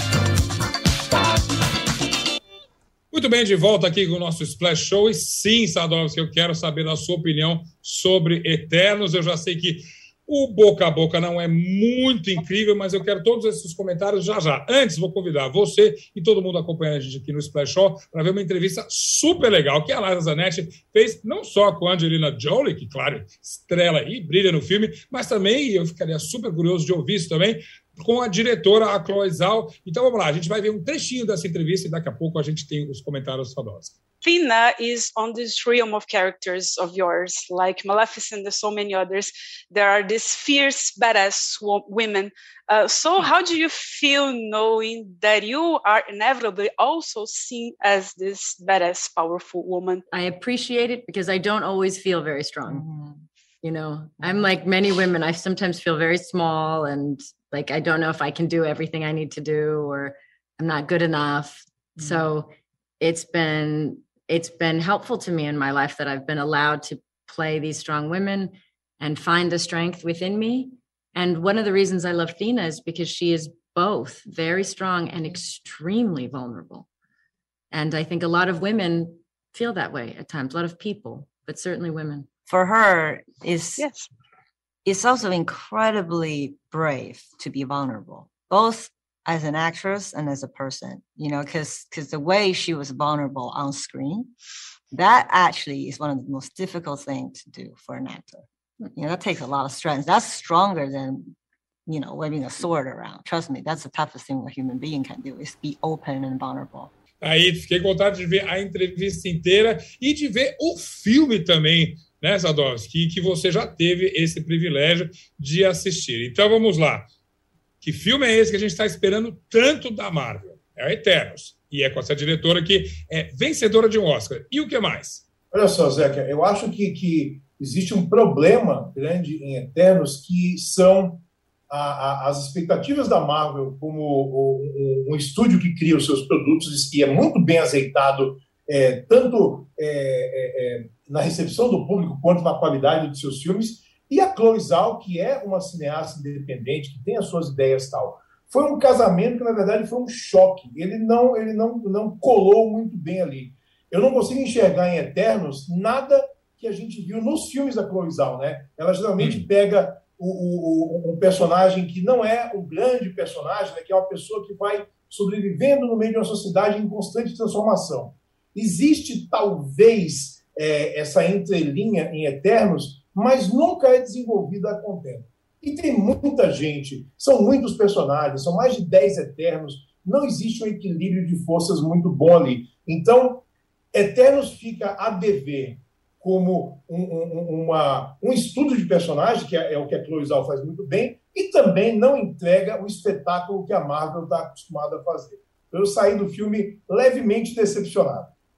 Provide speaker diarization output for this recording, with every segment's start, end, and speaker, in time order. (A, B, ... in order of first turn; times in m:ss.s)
0:03.1-0:33.9 A
0:34.2-0:50.0 B
0:50.1-0:52.9 C
0:52.6-0:53.2 D
0:53.6-1:16.9 C
0:54.2-0:54.5 D
1:02.0-1:02.3 D
1:17.7-1:22.3 C
1:22.4-1:23.9 D
1:23.8-1:24.1 B
1:24.9-1:34.3 D
1:34.9-1:41.3 D
1:41.9-1:46.9 D
1:47.2-1:57.0 A
1:57.8-2:05.2 A
2:05.5-3:18.3 E
2:39.2-2:39.4 A